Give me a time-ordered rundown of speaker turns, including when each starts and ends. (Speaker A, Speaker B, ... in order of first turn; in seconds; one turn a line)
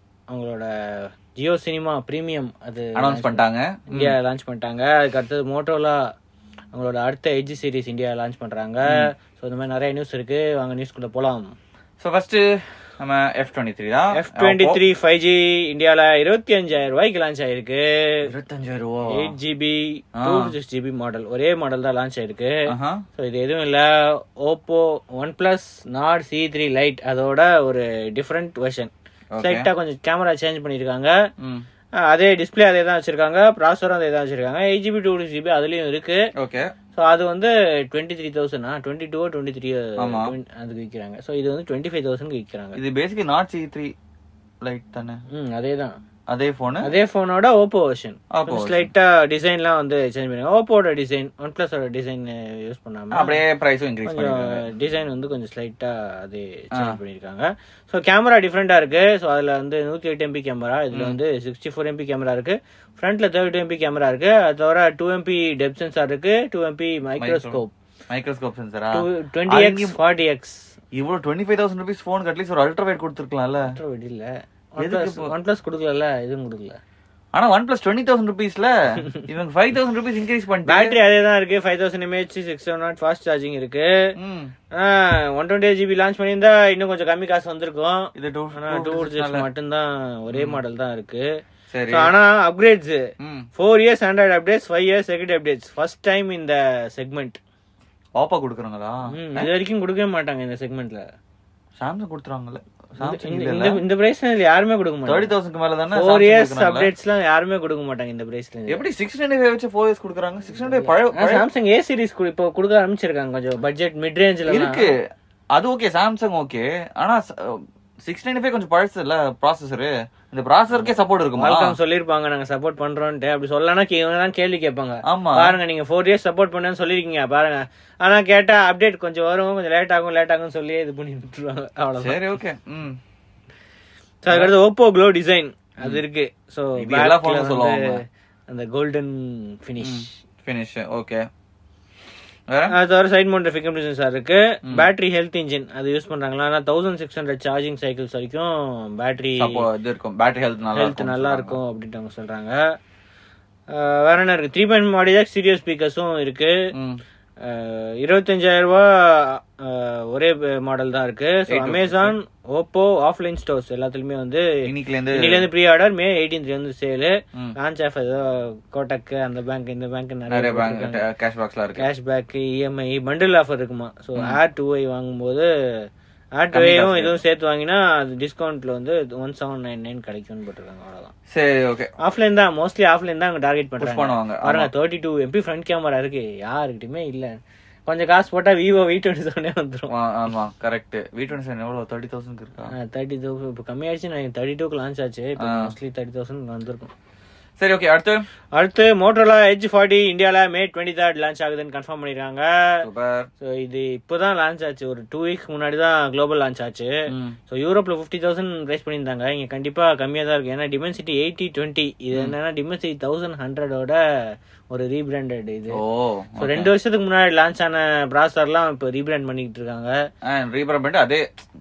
Speaker A: 0.3-6.0
Speaker B: 3.0-4.2
Speaker A: 6.7-11.5
Speaker B: 12.0-12.4
Speaker B: 13.0-14.8
Speaker A: 14.2-18.2
Speaker B: 18.3-19.3
Speaker A: 19.1-22.6
Speaker B: 20.2-20.5
Speaker B: 22.7-23.0
Speaker A: 23.2-31.1
Speaker B: 29.3-29.7
Speaker B: 31.4-31.6
Speaker A: 32.0-36.2
Speaker B: 36.4-36.7
Speaker A: 37.0-42.8
Speaker B: 40.0-40.3
Speaker B: 42.8-43.9
Speaker B: 44.6-45.2
Speaker A: 45.3-46.0
Speaker B: 46.3-46.9
Speaker A: 46.8-53.4
Speaker B: 48.3-48.9
Speaker B: 53.1-54.6
Speaker A: 54.0-67.7
Speaker B: 60.9-61.2
Speaker B: 67.2-67.6
Speaker B: 68.1-70.0
Speaker A: 68.9-70.7
Speaker B: 71.0-73.7
Speaker A: 73.7-76.8
Speaker B: 74.8-75.3
Speaker B: 77.3-81.0
Speaker A: 80.7-84.1
Speaker B: 84.2-84.5
Speaker A: 84.7-91.3
Speaker B: 88.2-89.5
Speaker B: 90.3-90.6
Speaker B: 91.7-92.1
Speaker A: 91.9-93.0
Speaker B: 93.2-93.5
Speaker A: 93.6-97.4
Speaker B: 98.2-99.5
Speaker A: 99.1-101.0
Speaker B: 101.8-103.8
Speaker A: 103.0-105.3
Speaker B: 105.1-106.9
Speaker A: 106.0-108.8
Speaker B: 108.7-111.5
Speaker A: 111.1-114.8
Speaker B: 114.5-115.0
Speaker B: 115.5-121.8
Speaker A: 120.8-132.2
Speaker B: 125.1-125.6
Speaker B: 132.0-133.0
Speaker A: 134.2-140.1
Speaker B: 134.3-134.6
Speaker B: 136.8-138.0
Speaker B: 139.8-141.2
Speaker B: 142.5-142.8
Speaker A: 142.7-149.7
Speaker B: 149.4-151.6
Speaker A: 150.8-152.6
Speaker A: 153.7-156.7
Speaker B: 156.7-157.0
Speaker A: 157.4-164.6
Speaker B: 161.5-162.2
Speaker B: 164.7-165.5
Speaker A: 165.2-171.0
Speaker B: 170.3-171.9
Speaker A: 171.8-175.5
Speaker A: 176.4-181.1
Speaker B: 176.5-177.2
Speaker B: 181.3-181.9
Speaker A: 182.0-189.9
Speaker B: 183.8-184.7
Speaker B: 189.9-192.7
Speaker A: 192.7-196.9
Speaker B: 195.4-195.7
Speaker B: 197.6-198.2
Speaker A: 198.6-202.8
Speaker B: 202.8-203.3
Speaker A: 203.4-214.0
Speaker B: 207.1-207.4
Speaker A: 214.7-215.8
Speaker B: 215.7-216.7
Speaker A: 216.4-220.0
Speaker B: 220.3-221.2